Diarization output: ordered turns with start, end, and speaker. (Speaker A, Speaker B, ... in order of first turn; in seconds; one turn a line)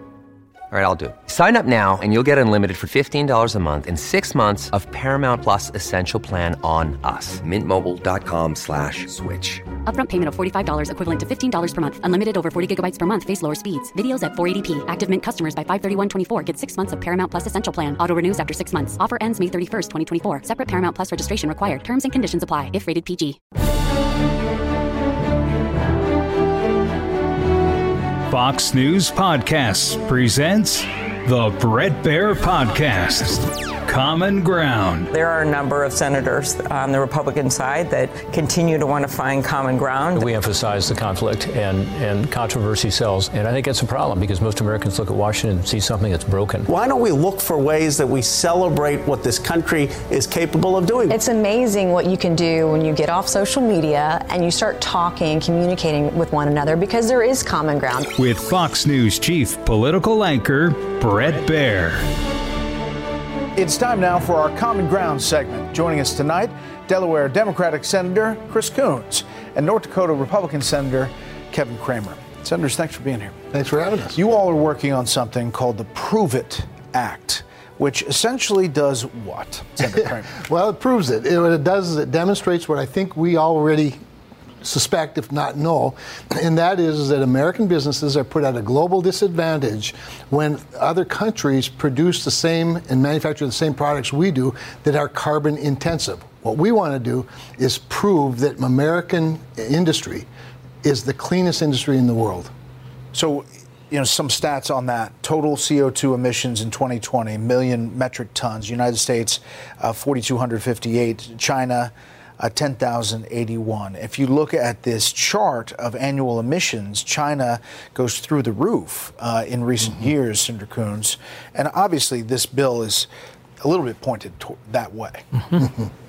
Speaker A: 0.7-9.6
Speaker B: 9.8-23.4
Speaker C: 28.3-35.1
Speaker D: 35.1-40.3
Speaker E: 40.1-46.6
Speaker F: 46.6-51.1
Speaker G: 51.2-58.1
Speaker C: 58.1-62.0
Speaker H: 63.5-73.3
Speaker I: 73.5-74.2
Speaker H: 74.2-80.3
Speaker I: 80.3-84.0
Speaker I: 84.6-100.3
Speaker I: 100.8-102.5
Speaker H: 103.1-123.1
Speaker H: 123.6-125.2